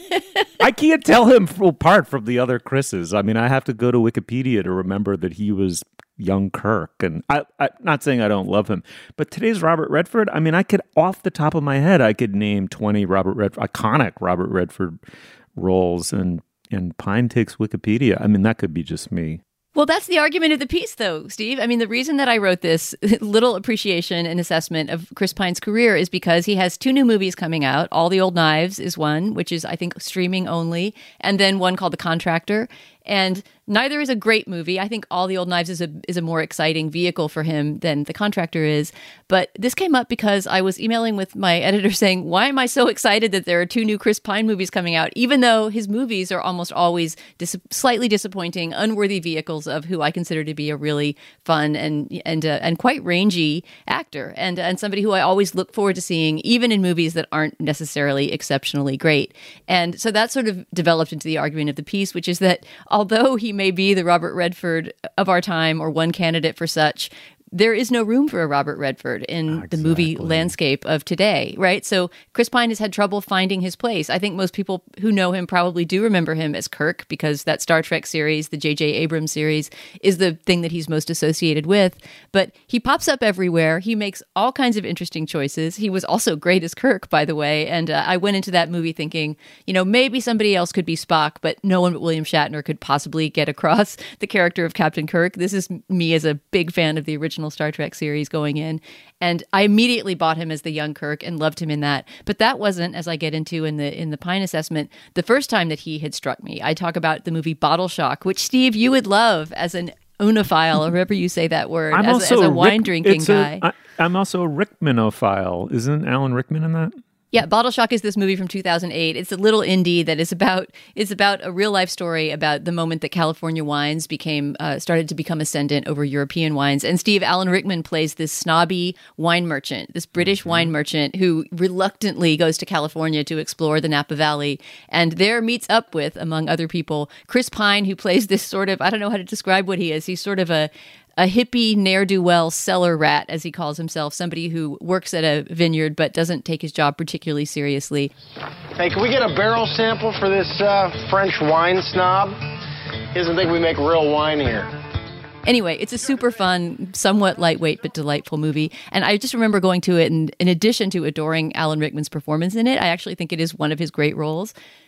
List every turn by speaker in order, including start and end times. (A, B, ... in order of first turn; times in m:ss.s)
0:00.6-0:15.0 A
0:15.6-0:19.4 A
0:19.8-1:53.6 B
1:09.5-1:10.5 A
1:51.9-1:57.0 A
1:57.3-2:28.1 B
2:10.2-2:10.7 A
2:28.8-2:32.4 C
2:33.1-2:34.7 C
2:35.4-2:44.5 B